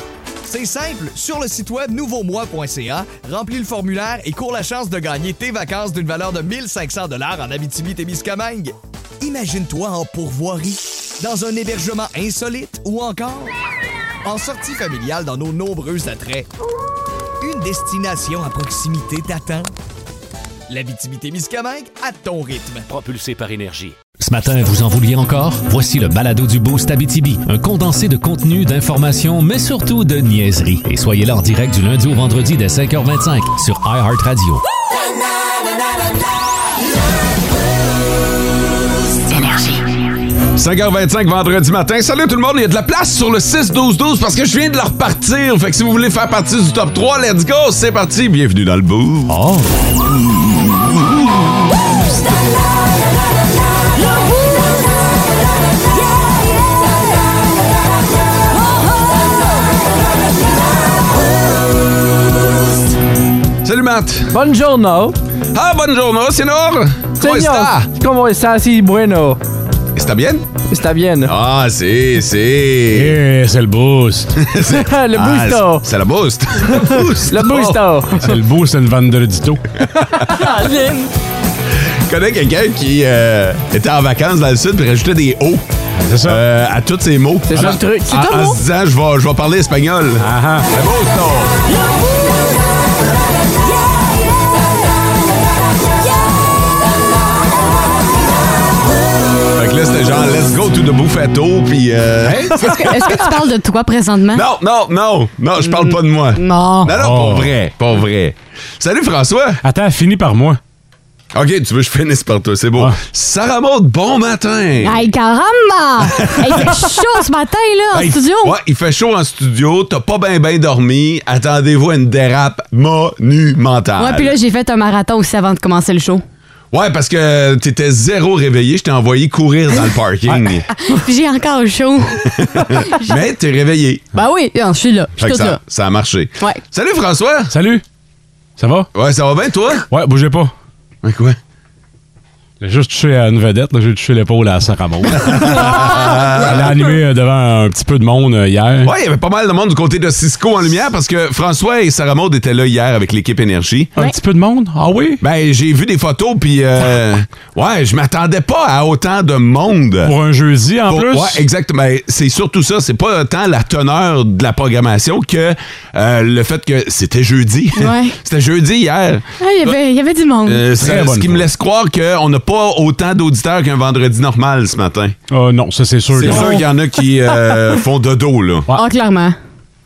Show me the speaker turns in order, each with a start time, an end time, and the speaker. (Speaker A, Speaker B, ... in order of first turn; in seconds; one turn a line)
Speaker A: 0.4-13.5
Speaker A: 14.2-16.5
Speaker A: 17.4-19.7
Speaker A: 20.7-22.9
Speaker B: 22.9-34.6
Speaker C: 40.5-49.4
Speaker D: 49.3-49.7
Speaker C: 50.4-51.4
Speaker C: 63.6-64.3
Speaker E: 64.3-65.2
Speaker C: 65.5-67.9
Speaker E: 67.2-69.4
Speaker C: 70.0-70.5
Speaker E: 70.7-71.3
Speaker C: 71.2-73.2
Speaker D: 72.9-74.4
Speaker C: 74.4-78.0
Speaker E: 74.7-75.8
Speaker E: 76.7-78.2
Speaker D: 78.2-79.6
Speaker C: 80.2-80.4
Speaker F: 80.4-81.1
Speaker C: 82.0-85.7
Speaker D: 86.0-86.4
Speaker C: 86.2-91.5
Speaker E: 87.5-88.1
Speaker F: 88.1-88.6
Speaker D: 90.2-90.7
Speaker C: 99.5-103.2
Speaker D: 102.2-102.6
Speaker F: 102.6-104.4
Speaker C: 104.3-109.6
Speaker F: 105.6-106.9
Speaker D: 106.9-107.5
Speaker D: 109.6-110.6
Speaker C: 111.3-115.1
Speaker F: 114.8-118.5
Speaker C: 116.0-116.9
Speaker C: 117.9-124.3
Speaker F: 124.0-126.2
Speaker C: 126.7-130.7
Speaker F: 130.8-133.1
Speaker C: 132.4-134.1
Speaker F: 134.1-135.6
Speaker C: 135.2-137.5
Speaker D: 137.5-137.8
Speaker D: 138.6-138.9
Speaker C: 138.9-139.9
Speaker D: 139.9-140.5
Speaker C: 141.0-141.4
Speaker D: 142.6-148.9
Speaker C: 145.2-146.8
Speaker C: 148.8-153.9
Speaker D: 153.9-155.2
Speaker C: 155.2-160.1
Speaker D: 160.0-161.4
Speaker C: 160.9-169.7
Speaker F: 167.7-168.2
Speaker F: 169.4-170.6
Speaker C: 170.4-175.2
Speaker D: 170.8-171.4
Speaker D: 175.3-176.6
Speaker C: 176.1-178.7
Speaker E: 176.3-176.6
Speaker F: 178.7-179.4